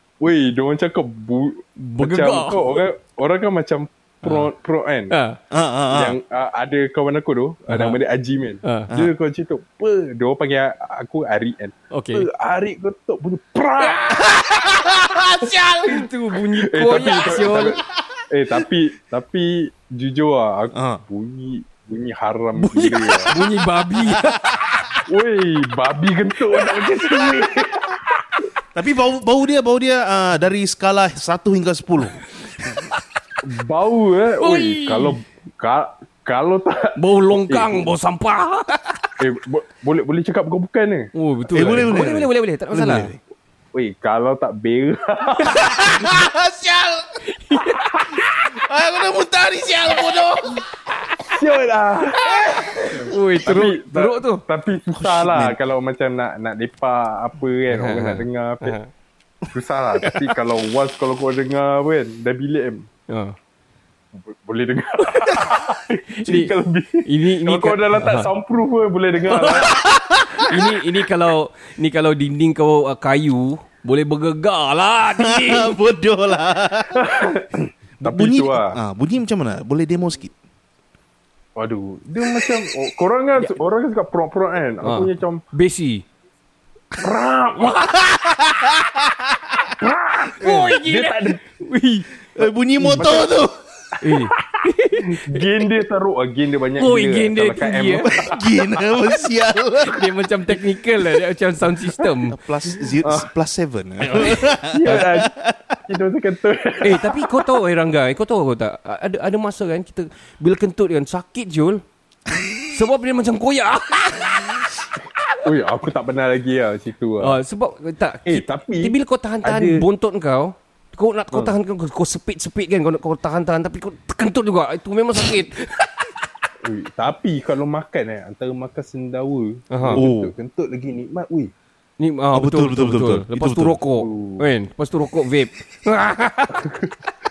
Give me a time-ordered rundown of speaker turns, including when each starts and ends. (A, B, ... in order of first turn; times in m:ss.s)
0:00.2-0:05.1 A
0:01.8-0:02.6 B
0:04.2-0:04.5 B
0:05.1-0:05.4 B
0:05.5-0:06.2 C
0:05.9-0:14.3 A
0:07.7-0:08.0 B
0:08.6-0:08.9 B
0:11.9-0:12.2 B
0:14.3-0:16.0 C
0:15.8-0:17.8 B
0:15.9-0:23.3 A
0:20.7-0:21.0 C
0:22.6-0:24.9 B
0:25.1-0:28.0 A
0:28.7-0:32.9 C
0:33.4-0:37.0 A
0:34.4-0:35.2 B
0:37.0-0:39.1 B
0:37.5-0:37.9 A
0:39.2-0:41.1 A
0:41.1-0:43.1 B
0:41.5-0:43.2 C
0:41.6-0:41.9 A
0:43.7-0:46.0 A
0:45.4-0:47.2 C
0:47.2-0:48.4 B
0:48.5-0:50.6 C
0:51.3-0:58.8 A
0:53.0-0:54.4 B
0:54.9-0:55.5 C
0:57.7-0:58.9 B
0:59.5-1:02.8 A
1:00.0-1:00.3 B
1:03.1-1:03.3 B
1:04.2-1:09.8 A
1:05.1-1:05.6 B
1:06.2-1:06.5 B
1:07.0-1:08.3 B
1:09.3-1:09.7 B
1:09.5-1:10.6 C
1:10.3-1:15.8 B
1:15.2-1:17.0 C
1:17.0-1:17.5 A
1:18.0-1:18.8 A
1:18.0-1:20.3 C
1:21.6-1:25.4 A
1:24.8-1:26.0 B
1:27.0-1:27.7 A
1:27.8-1:29.5 C
1:29.8-1:31.4 A
1:30.4-1:32.1 B
1:32.3-1:33.6 C
1:32.8-1:33.1 B
1:33.0-1:33.3 A
1:34.0-1:35.4 B
1:35.0-1:38.4 A
1:36.8-1:38.1 B
1:38.0-1:40.5 C
1:39.8-1:42.4 B
1:42.3-1:45.6 C
1:44.2-1:45.3 A
1:45.9-1:47.2 A
1:46.8-1:51.8 B
1:52.3-1:52.6 C
1:52.7-1:54.6 B
1:55.4-1:57.4 A
1:57.2-2:06.0 B
1:58.2-1:59.8 A
2:06.6-2:11.5 A
2:09.7-2:10.0 B
2:09.9-2:10.3 C
2:12.0-2:16.7 B
2:12.3-2:13.8 C
2:13.9-2:14.4 A
2:16.5-2:16.9 A